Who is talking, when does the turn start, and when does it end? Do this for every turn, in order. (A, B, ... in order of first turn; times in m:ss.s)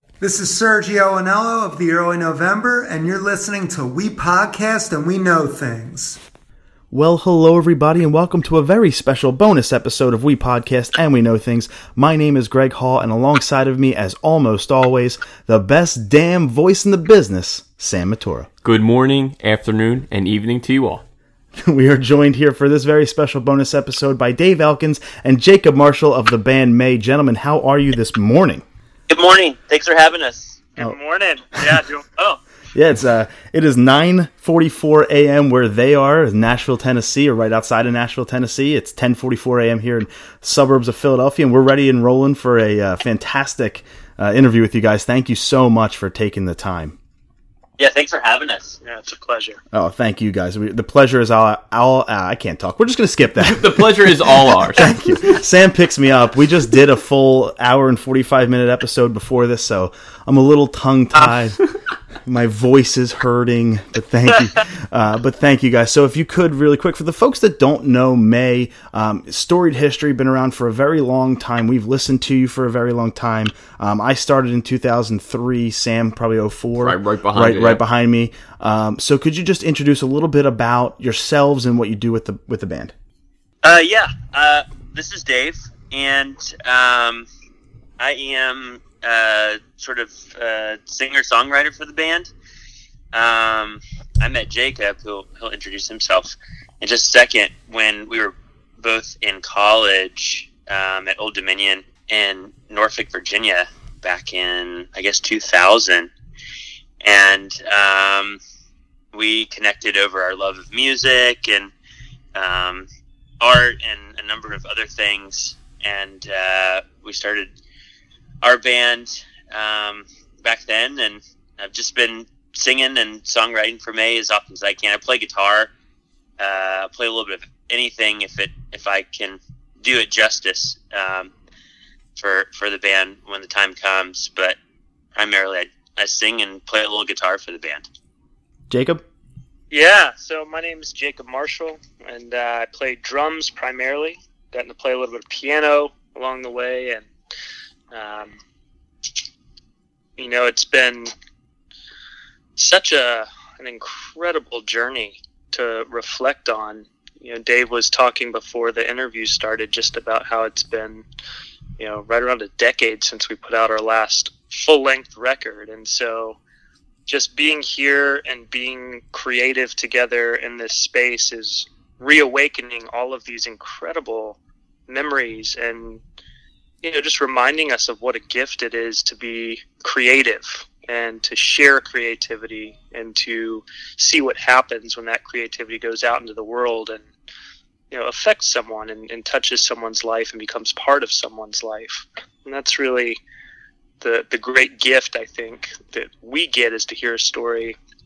0:00.2-0:06.2 A
0:06.9-0:18.5 B
0:18.6-0:21.0 C
0:21.6-0:28.6 B
0:29.1-0:30.6 D
0:30.8-0:32.4 E
0:32.7-0:47.0 B
0:47.8-0:48.8 D
0:48.8-0:49.6 E
0:49.7-1:01.6 B
0:53.5-0:54.9 C
1:02.2-1:22.9 B
1:16.8-1:17.8 C
1:23.6-1:27.3 D
1:28.0-1:32.3 D
1:33.1-1:46.1 D
1:47.0-1:48.4 D
1:49.1-1:51.7 D
1:52.4-1:52.9 D
1:53.4-1:57.5 D
1:58.4-2:05.7 D
2:06.4-2:11.3 D
2:12.2-2:14.6 D
2:15.2-2:17.9 D
2:18.7-2:19.0 B
2:19.7-2:27.1 E
2:27.9-2:28.4 E
2:30.2-2:31.1 E
2:32.6-2:41.0 E
2:41.8-2:46.4 E
2:47.1-2:56.0 E
2:56.8-3:07.0 E
3:07.9-3:13.2 E
3:14.0-3:17.8 E